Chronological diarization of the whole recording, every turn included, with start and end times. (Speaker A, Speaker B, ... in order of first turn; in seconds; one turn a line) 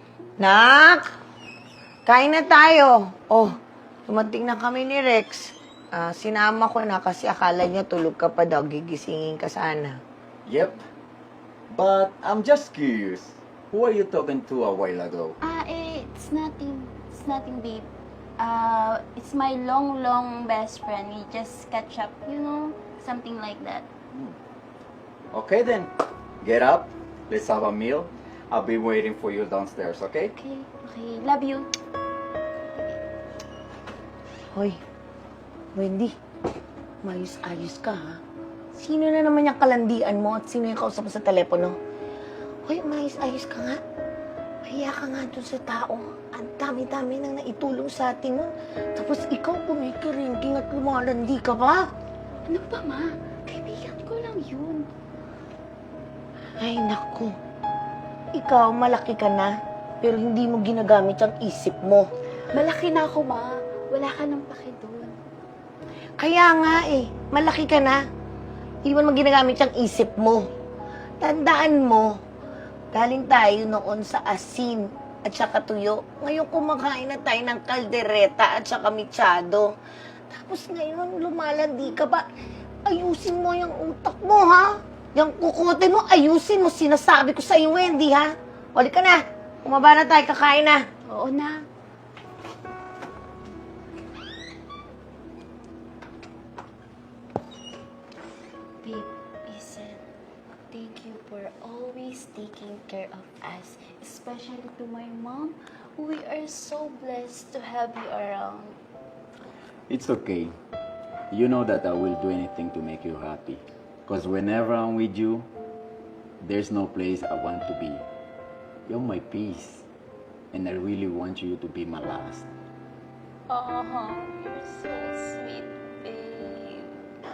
Speaker A: 0.4-1.0
Speaker A: 2.0-10.0
Speaker B: 10.4-10.8
Speaker B: 11.7-15.4
Speaker C: 15.4-17.9
Speaker C: 18.4-23.9
Speaker B: 25.3-30.3
Speaker C: 30.3-31.7
Speaker C: 32.7-33.0
Speaker A: 35.7-36.1
Speaker A: 37.0-38.2
Speaker A: 38.7-41.8
Speaker A: 42.6-43.8
Speaker A: 44.6-51.9
Speaker C: 52.5-54.9
Speaker A: 56.6-57.3
Speaker A: 58.3-62.1
Speaker C: 62.5-65.2
Speaker A: 66.2-68.0
Speaker A: 68.8-70.4
Speaker A: 71.2-72.1
Speaker A: 72.9-79.7
Speaker A: 80.3-82.2
Speaker A: 82.8-90.8
Speaker C: 91.0-91.6
Speaker C: 98.8-100.0
Speaker C: 100.7-108.8
Speaker B: 109.9-110.5
Speaker B: 111.3-115.5
Speaker B: 116.4-118.0
Speaker B: 118.9-119.8
Speaker B: 120.5-122.5
Speaker C: 123.5-127.0